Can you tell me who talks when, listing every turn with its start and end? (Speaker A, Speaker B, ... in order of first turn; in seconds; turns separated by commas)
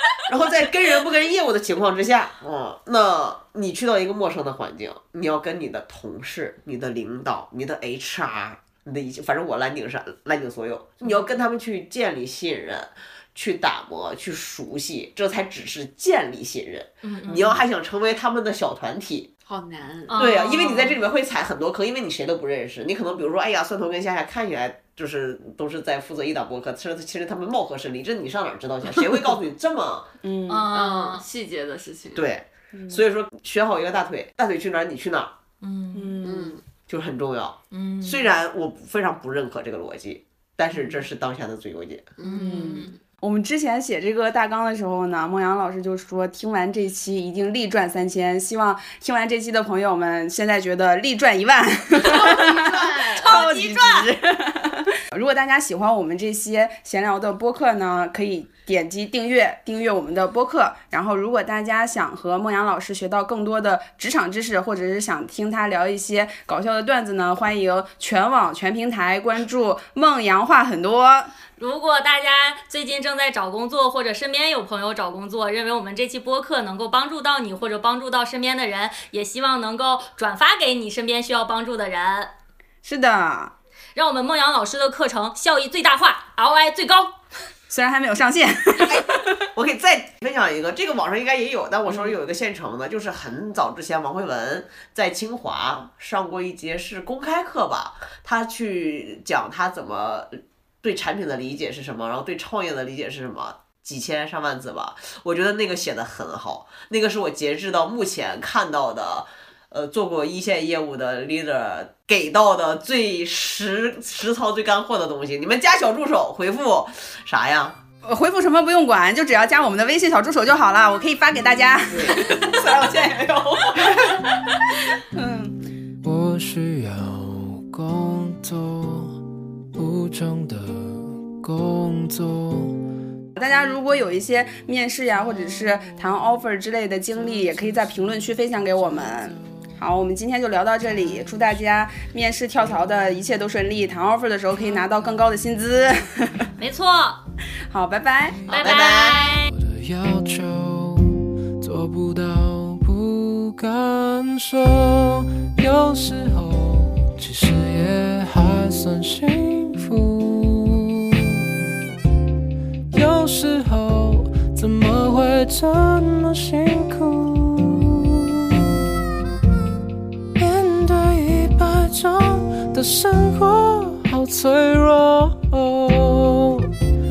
Speaker A: 0.2-19.3, Speaker B: 17.0-17.6, Speaker C: 19.5-20.3, Speaker B: 20.1-21.0, Speaker A: 20.1-30.1, Speaker D: 30.2-30.7, Speaker B: 30.5-31.3, Speaker C: 30.7-32.3, Speaker A: 32.1-35.3, Speaker D: 32.7-33.0, Speaker B: 35.6-36.2, Speaker D: 35.9-36.6, Speaker C: 36.2-36.6, Speaker A: 36.9-42.1, Speaker B: 37.7-38.3, Speaker C: 42.2-43.0, Speaker B: 42.2-42.9, Speaker D: 42.3-71.3, Speaker C: 52.0-53.3, Speaker B: 53.2-54.1, Speaker B: 71.6-82.3, Speaker D: 82.8-83.5, Speaker B: 84.0-87.1, Speaker D: 87.7-89.3, Speaker A: 88.8-117.8, Speaker D: 118.0-125.6, Speaker A: 121.9-124.2, Speaker E: 126.0-129.2, Speaker E: 129.7-132.8, Speaker D: 133.3-146.5, Speaker B: 146.6-147.2, Speaker D: 147.7-148.4, Speaker E: 148.5-148.7, Speaker B: 148.5-149.5, Speaker A: 148.5-149.4, Speaker E: 149.4-161.4, Speaker E: 162.9-168.7, Speaker E: 170.4-176.7